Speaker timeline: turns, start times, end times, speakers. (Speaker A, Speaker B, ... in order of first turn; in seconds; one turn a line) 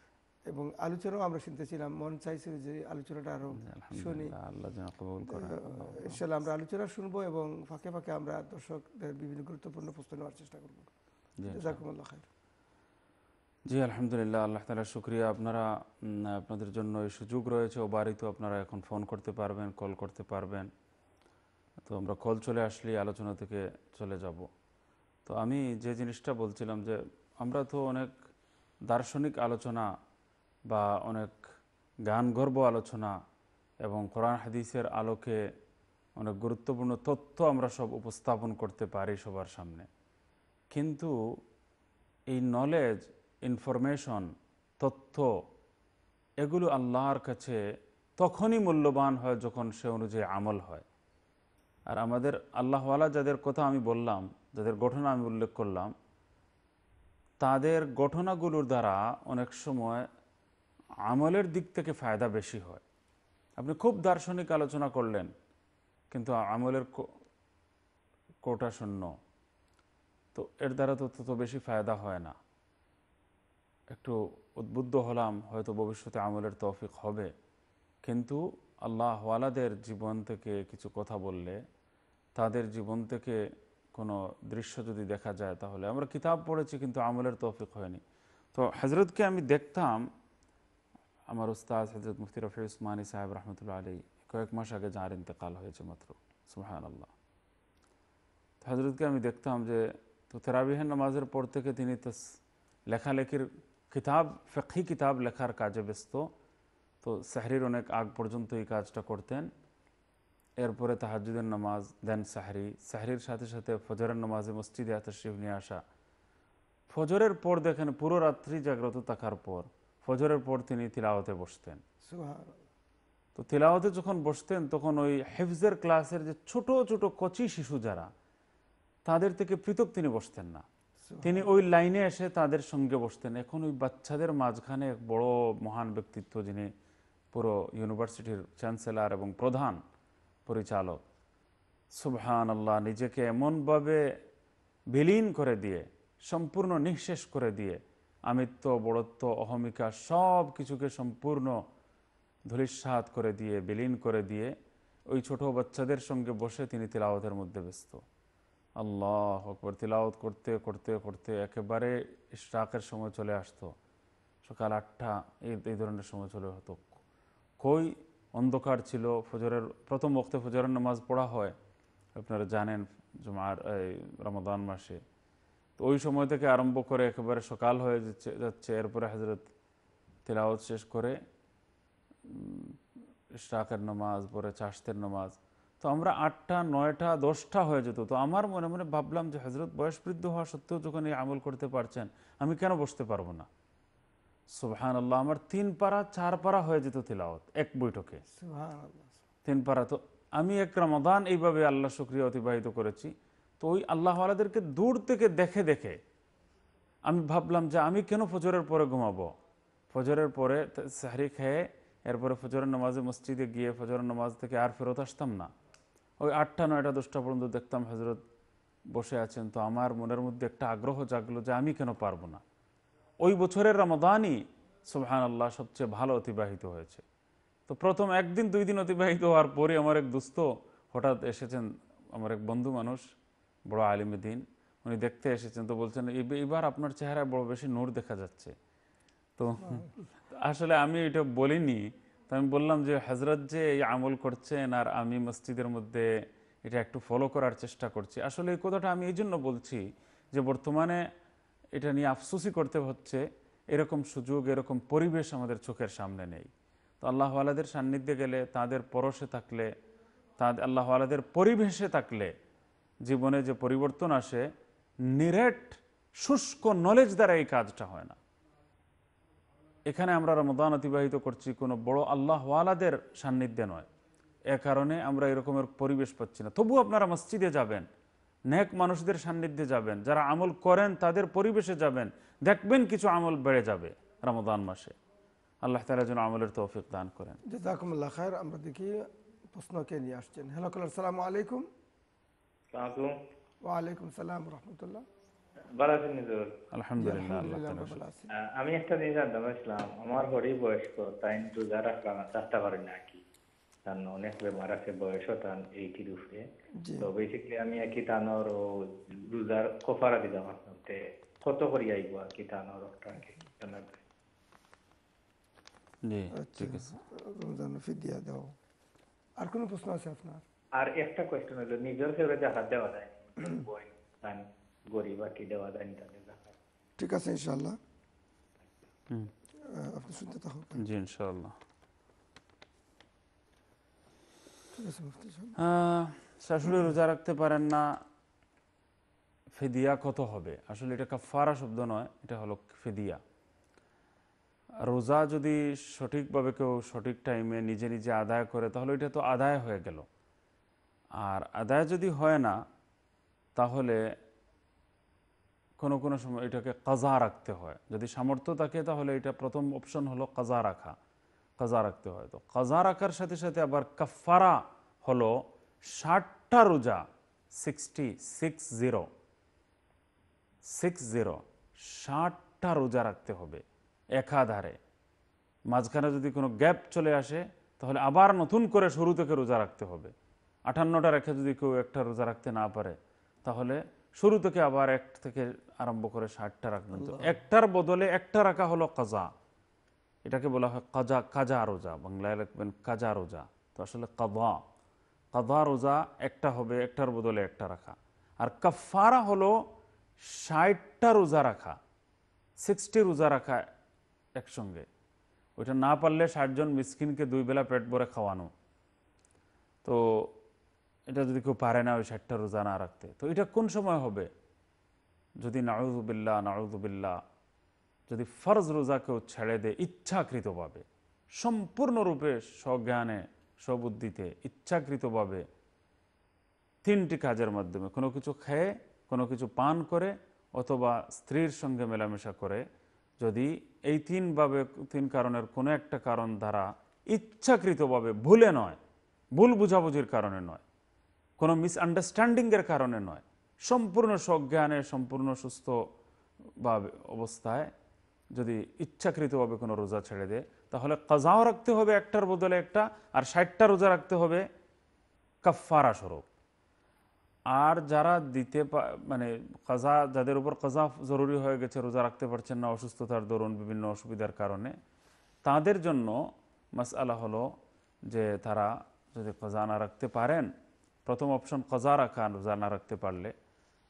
Speaker A: 0.5-4.3
Speaker B: 3.5-6.2
Speaker A: 5.3-10.9
Speaker B: 11.4-11.8
Speaker A: 11.4-12.3
Speaker B: 13.7-20.7
Speaker B: 21.9-24.5
Speaker B: 25.2-28.1
Speaker B: 28.9-29.9
Speaker B: 30.7-31.4
Speaker B: 32.1-33.1
Speaker B: 33.8-35.4
Speaker B: 36.2-39.9
Speaker B: 40.7-41.1
Speaker B: 42.3-45.3
Speaker B: 46.4-47.6
Speaker B: 48.2-50.8
Speaker B: 51.9-55.9
Speaker B: 57.4-60.1
Speaker B: 61.1-62.8
Speaker B: 63.6-65.3
Speaker B: 66.1-67.0
Speaker B: 68.4-69.1
Speaker B: 70.3-72.3
Speaker B: 73.9-77.3
Speaker B: 78.0-81.6
Speaker B: 82.3-83.4
Speaker B: 83.9-88.0
Speaker B: 88.5-90.0
Speaker B: 91.3-97.1
Speaker B: 98.6-102.3
Speaker B: 102.9-106.3
Speaker B: 107.0-109.5
Speaker B: 110.6-115.8
Speaker B: 116.9-121.8
Speaker A: 122.0-122.6
Speaker B: 123.3-128.1
Speaker B: 129.1-130.6
Speaker A: 131.0-131.5
Speaker B: 131.2-136.7
Speaker B: 137.3-139.8
Speaker B: 140.4-141.0
Speaker B: 142.0-144.0
Speaker B: 144.9-151.6
Speaker B: 152.5-154.5
Speaker B: 155.1-158.0
Speaker B: 158.8-163.7
Speaker B: 164.4-167.0
Speaker B: 167.6-171.5
Speaker B: 172.2-175.0
Speaker B: 175.8-179.5
Speaker B: 180.2-181.2
Speaker B: 182.3-182.8
Speaker B: 183.3-193.5
Speaker B: 194.5-198.2
Speaker A: 198.3-199.2
Speaker B: 199.4-206.0
Speaker B: 207.1-209.3
Speaker B: 209.9-215.5
Speaker B: 216.2-218.2
Speaker B: 218.9-222.4
Speaker B: 223.2-227.0
Speaker B: 227.7-233.0
Speaker B: 233.7-238.5
Speaker B: 239.4-246.1
Speaker A: 239.6-239.9
Speaker B: 246.6-251.0
Speaker B: 251.7-256.5
Speaker B: 257.0-259.7
Speaker B: 260.4-262.3
Speaker B: 263.1-264.5
Speaker B: 265.1-268.2
Speaker B: 269.9-273.9
Speaker B: 274.5-277.9
Speaker B: 278.5-284.9
Speaker B: 285.6-287.4
Speaker A: 287.4-291.7
Speaker C: 292.7-293.1
Speaker A: 293.6-295.0
Speaker C: 295.8-296.5
Speaker B: 296.7-298.0
Speaker A: 297.0-298.3
Speaker C: 298.4-303.2
Speaker C: 303.9-306.4
Speaker A: 306.8-307.1
Speaker C: 307.0-314.0
Speaker B: 316.0-316.9
Speaker A: 316.3-318.6
Speaker A: 319.4-320.4
Speaker C: 320.8-326.5
Speaker A: 327.0-327.8
Speaker A: 329.6-330.8
Speaker B: 330.8-331.6
Speaker A: 334.7-335.6
Speaker B: 335.6-337.9
Speaker B: 339.5-343.2
Speaker B: 344.8-350.1
Speaker B: 351.2-352.6
Speaker B: 353.6-354.0
Speaker B: 355.8-360.9
Speaker B: 361.6-369.1
Speaker B: 370.6-373.6
Speaker B: 374.2-374.8
Speaker B: 375.7-380.1
Speaker B: 380.7-389.3
Speaker A: 386.9-387.4
Speaker B: 390.2-394.6
Speaker B: 395.3-399.6
Speaker B: 400.2-401.8
Speaker B: 402.6-403.7
Speaker B: 404.4-404.9
Speaker B: 405.6-408.5
Speaker B: 409.8-410.3
Speaker B: 411.1-414.3
Speaker B: 415.4-417.2
Speaker B: 418.1-420.8
Speaker B: 421.4-425.4
Speaker B: 426.8-432.6
Speaker B: 433.2-438.8
Speaker B: 439.4-440.6
Speaker B: 441.4-445.9
Speaker B: 446.6-447.7
Speaker B: 448.3-454.4
Speaker B: 455.4-456.2
Speaker B: 457.5-464.7
Speaker B: 465.4-466.2
Speaker B: 466.7-467.5
Speaker B: 468.1-470.5
Speaker B: 471.1-473.3